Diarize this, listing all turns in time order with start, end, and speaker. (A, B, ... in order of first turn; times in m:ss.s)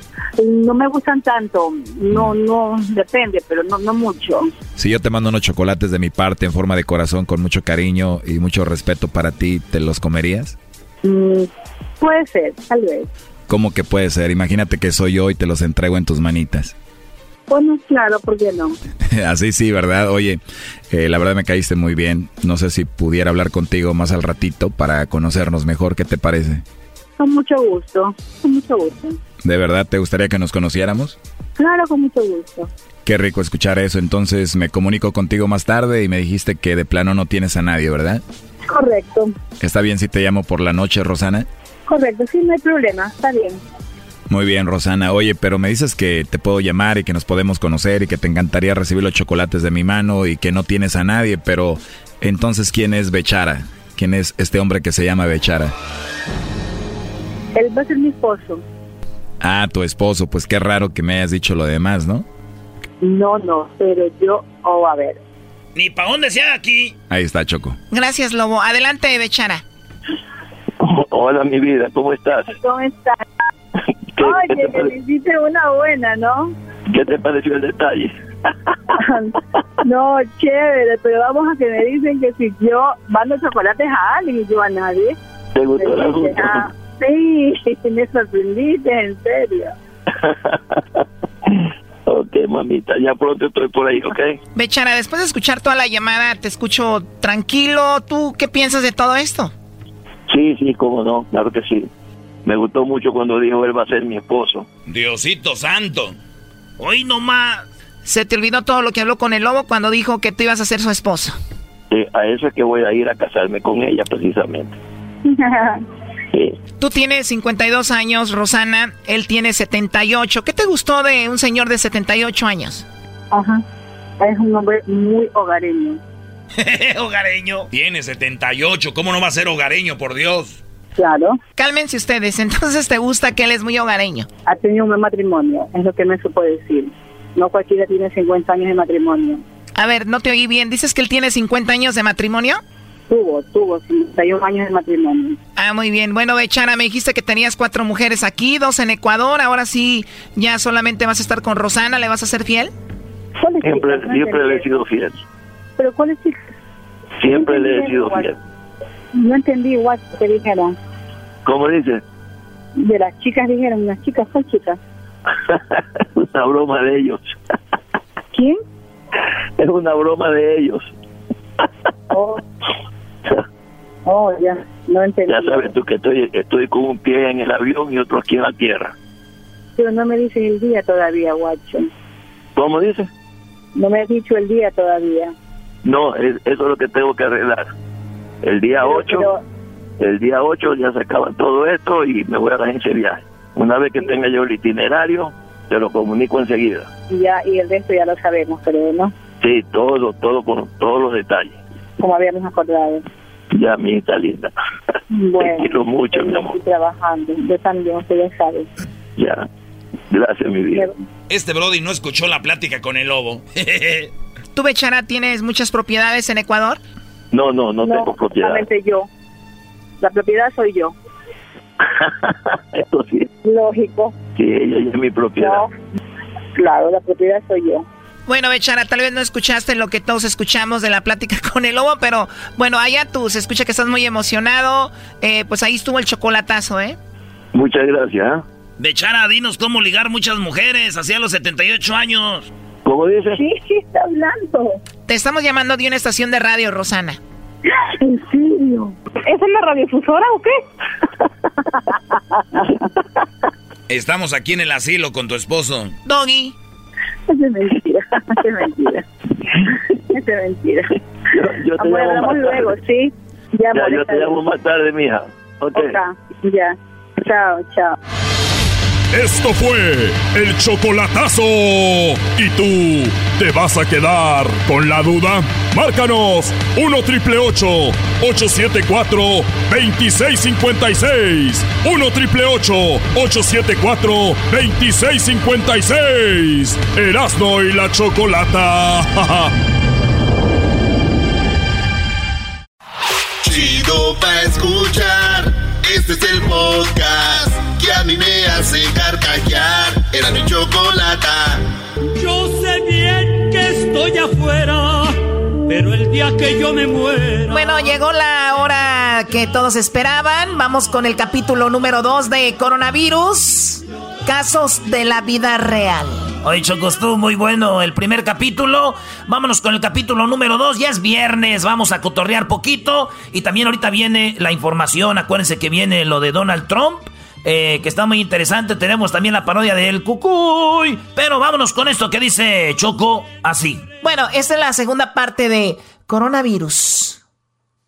0:00.4-0:04.5 A
0:04.8-0:10.6 B
0:11.0-0:11.5 A
0:12.0-0:13.1 A
0:13.5-0:16.7 B
0:17.5-0:18.8 A
0:19.1-0:26.6 B
0:27.2-0:29.2 A
0:29.4-0:31.2 B
0:31.6-0:32.7 A
0:33.0-0:38.2 B
0:38.7-0:39.3 A
0:39.6-0:41.5 B
0:41.9-0:43.6 A
0:44.3-0:55.7 B
0:57.5-0:58.6 A
0:59.4-1:02.2 B
1:03.0-1:05.2 A
1:05.7-1:07.0 C
1:07.1-1:07.8 B
1:07.9-1:09.6 D
1:10.8-1:12.5 E
1:12.6-1:13.2 A
1:14.2-1:14.9 E
1:14.2-1:16.5 A
1:16.9-1:18.1 E
1:19.0-1:25.2 A
1:25.5-1:26.6 E
1:25.8-1:29.7 A
1:30.2-1:30.8 E
1:32.1-1:34.4 E
1:34.5-1:39.5 D
1:40.3-1:41.9 E
1:42.4-1:44.6 E
1:44.9-1:46.2 B
1:46.8-1:47.6 C
1:48.0-1:51.4 D
1:51.9-1:54.7 E
1:55.2-1:55.8 A
1:56.8-2:02.8 D
2:03.3-2:03.6 A
2:04.2-2:06.0 A
2:06.6-2:07.7 C
2:07.7-2:10.6 B
2:10.9-2:11.4 A
2:11.6-2:14.3 D
2:14.4-2:19.4 A
2:19.7-2:22.6 D
2:23.1-2:25.4 A
2:25.6-2:32.7 D
2:33.4-2:34.7 A
2:33.6-2:35.2 E
2:35.8-2:36.5 A
2:37.2-2:38.4 E
2:37.2-2:38.3 A
2:39.1-2:40.8 A
2:41.4-2:42.0 E
2:42.8-2:44.8 A
2:45.4-2:47.3 E
2:48.3-2:48.6 A
2:49.6-2:50.9 E
2:52.1-2:52.4 A
2:54.0-2:55.7 A
2:55.3-2:58.9 E
2:59.8-3:01.9 A
3:02.6-3:03.1 E
3:03.7-3:05.3 A
3:05.8-3:07.7 E
3:08.4-3:09.3 E
3:08.8-3:09.4 A
3:10.0-3:16.9 E
3:17.1-3:19.1 A
3:19.4-3:21.6 E
3:22.0-3:23.0 A
3:23.5-3:24.5 E
3:25.1-3:28.7 A
3:25.4-3:26.6 E
3:29.2-3:29.4 E
3:30.1-3:30.9 E
3:31.3-3:34.1 B
3:34.5-3:36.8 D
3:37.3-3:38.7 E
3:37.8-3:39.1 A
3:40.0-3:40.9 A
3:41.8-3:43.3 E
3:43.4-3:44.2 A
3:44.4-3:45.6 E
3:45.4-3:45.7 A
3:46.6-3:47.8 A
3:48.3-3:57.0 D
3:57.5-3:58.4 E
3:58.8-4:02.5 C
4:02.8-4:03.4 E
4:03.3-4:04.8 A
4:05.1-4:07.2 D
4:07.8-4:10.6 A
4:13.9-4:15.9 B
4:16.0-4:16.6 D
4:17.3-4:19.0 A
4:20.1-4:20.9 A
4:21.3-4:22.8 E
4:21.8-4:24.4 A
4:23.7-4:26.0 E
4:25.7-4:28.0 A
4:29.1-4:49.5 F
4:53.4-5:01.7 G
5:02.2-5:07.7 H
5:07.5-5:16.3 D
5:16.4-5:33.8 C
5:34.0-5:37.2 D